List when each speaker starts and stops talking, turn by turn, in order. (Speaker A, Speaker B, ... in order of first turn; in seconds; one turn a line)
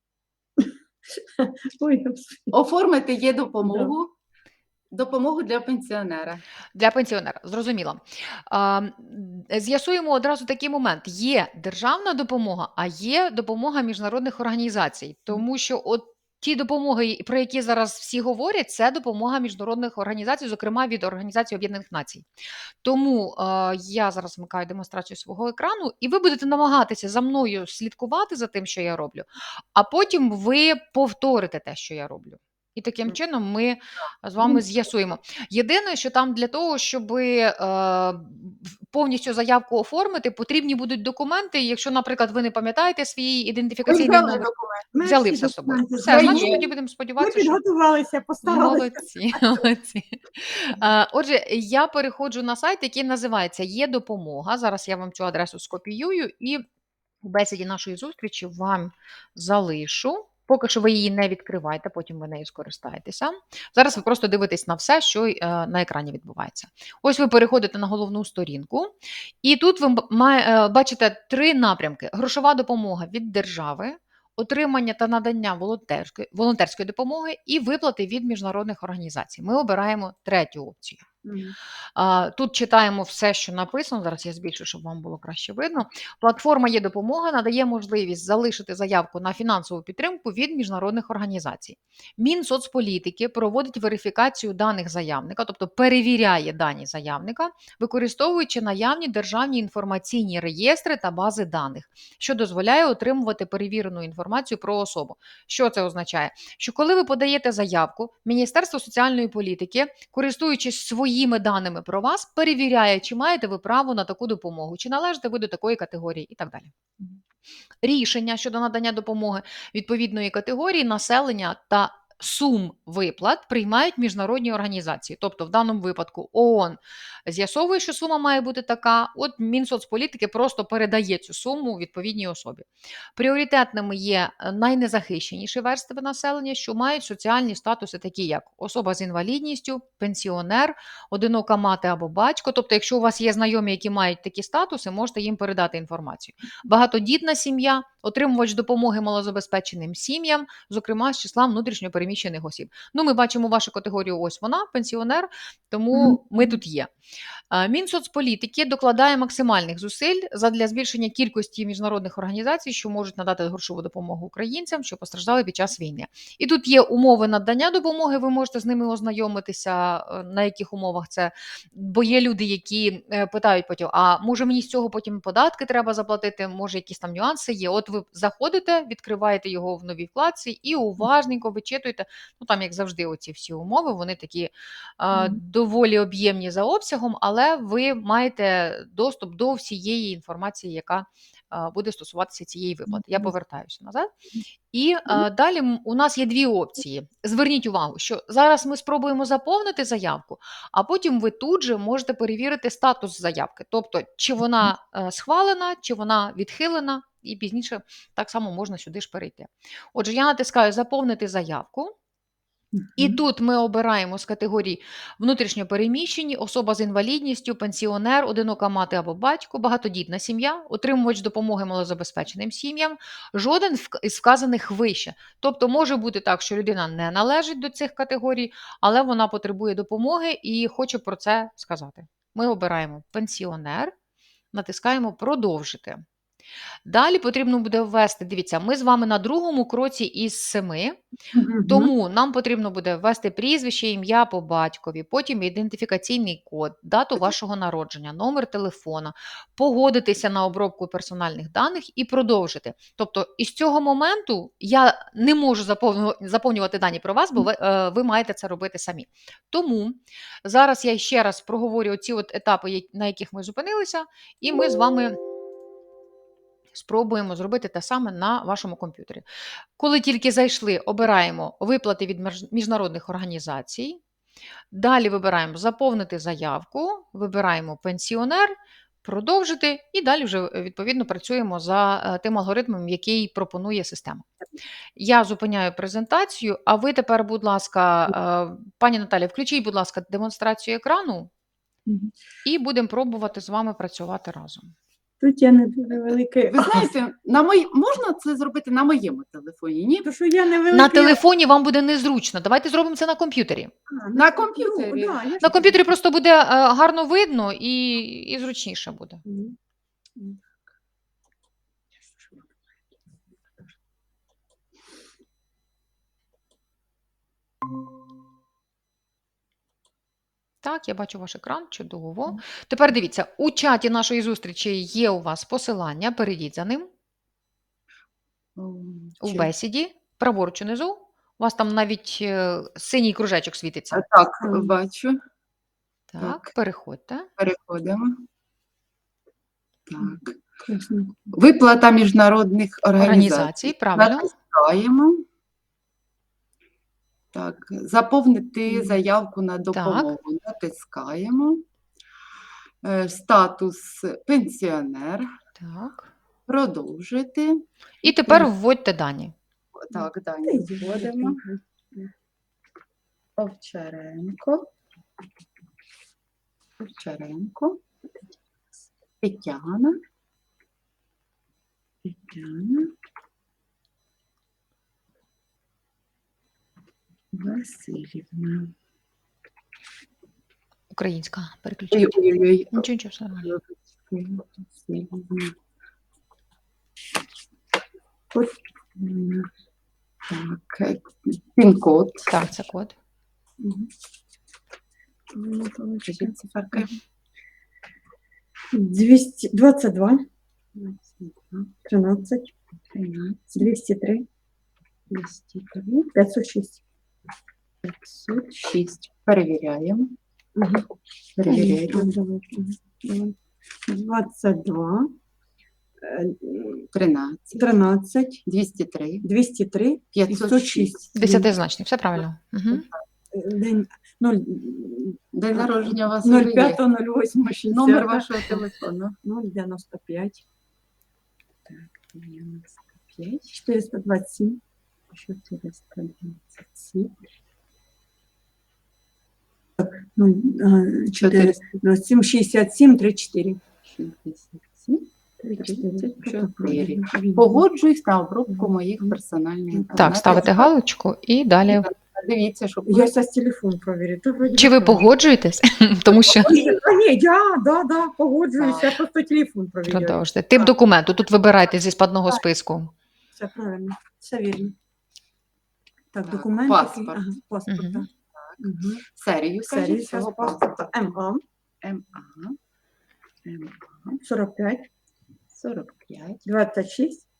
Speaker A: 0.6-2.5
Speaker B: 2.5-4.1
Speaker A: 3.6-3.9
Speaker B: 4.9-6.4
Speaker C: 6.7-22.2
Speaker C: 22.8-44.5
Speaker B: 43.9-44.9
Speaker A: 44.9-49.0
Speaker C: 45.0-47.6
Speaker B: 46.0-46.7
Speaker C: 48.4-56.6
Speaker C: 57.2-81.0
Speaker A: 81.2-81.5
Speaker C: 82.0-116.7
Speaker C: 117.8-156.9
Speaker C: 157.5-194.1
Speaker A: 185.1-185.4
Speaker A: 192.9-193.3
Speaker C: 194.7-211.9
Speaker C: 213.0-233.9
Speaker C: 234.5-236.0
Speaker C: 236.8-241.0
Speaker A: 241.3-241.9
Speaker C: 241.7-265.2
Speaker C: 266.7-269.2
Speaker C: 269.8-274.0
Speaker C: 274.7-284.3
Speaker C: 285.0-291.3
Speaker A: 291.9-292.1
Speaker C: 292.4-294.7
Speaker A: 295.2-296.9
Speaker B: 296.5-300.1
Speaker A: 300.0-301.2
Speaker C: 300.7-303.7
Speaker A: 303.9-305.9
Speaker B: 304.1-305.3
Speaker C: 305.4-309.2
Speaker A: 309.2-309.6
Speaker C: 320.6-326.9
Speaker B: 328.6-329.5
Speaker C: 329.2-334.0
Speaker B: 333.9-335.2
Speaker A: 334.4-334.7
Speaker C: 336.1-337.3
Speaker B: 336.2-336.5
Speaker B: 337.4-338.1
Speaker B: 339.9-340.4
Speaker A: 340.6-341.4
Speaker B: 341.3-345.2
Speaker C: 343.0-344.3
Speaker B: 347.3-351.6
Speaker A: 348.7-349.0
Speaker C: 349.7-350.1
Speaker B: 352.8-355.3
Speaker C: 355.6-356.1
Speaker B: 356.5-358.5
Speaker C: 358.0-359.3
Speaker B: 359.8-361.4
Speaker A: 359.9-362.1
Speaker B: 363.4-364.7
Speaker B: 366.8-367.8
Speaker B: 369.2-370.0
Speaker B: 372.1-372.9
Speaker B: 377.3-378.7
Speaker C: 380.9-382.2
Speaker B: 381.9-382.9
Speaker C: 382.7-383.5
Speaker B: 383.4-385.5
Speaker B: 389.0-389.4
Speaker B: 390.3-392.3
Speaker C: 392.3-392.9
Speaker A: 393.6-393.9
Speaker A: 395.3-396.9
Speaker B: 396.1-396.9
Speaker A: 398.7-400.2
Speaker B: 400.8-401.7
Speaker A: 401.8-402.5
Speaker B: 402.9-403.7
Speaker A: 403.6-404.2
Speaker B: 405.1-406.1
Speaker A: 406.1-406.8
Speaker B: 408.2-410.1
Speaker A: 410.6-410.9
Speaker B: 411.4-412.1
Speaker A: 411.4-413.3
Speaker A: 413.9-415.1
Speaker A: 416.0-416.9
Speaker B: 416.9-417.7
Speaker A: 417.5-418.4
Speaker B: 418.4-419.3
Speaker A: 419.2-421.5
Speaker B: 420.1-421.0
Speaker C: 421.1-422.9
Speaker A: 423.3-428.6
Speaker B: 425.3-426.8
Speaker B: 427.7-429.1
Speaker A: 429.2-430.4
Speaker B: 431.7-433.5
Speaker A: 433.5-434.6
Speaker B: 435.1-437.1
Speaker A: 439.8-443.6
Speaker B: 441.2-441.6
Speaker B: 443.9-445.1
Speaker A: 445.4-447.6
Speaker B: 445.6-450.7
Speaker A: 448.5-449.2
Speaker A: 449.7-450.5
Speaker C: 449.9-451.9
Speaker B: 451.7-453.1
Speaker A: 452.9-455.1
Speaker C: 454.6-456.5
Speaker A: 456.1-460.7
Speaker B: 458.6-459.0
Speaker C: 459.9-462.9
Speaker A: 463.4-464.7
Speaker A: 466.1-469.0
Speaker B: 466.2-467.3
Speaker C: 467.7-468.1
Speaker B: 468.3-471.0
Speaker A: 469.6-471.4
Speaker B: 471.8-472.6
Speaker B: 473.4-474.2
Speaker A: 474.2-474.9
Speaker B: 475.5-476.4
Speaker A: 476.4-477.2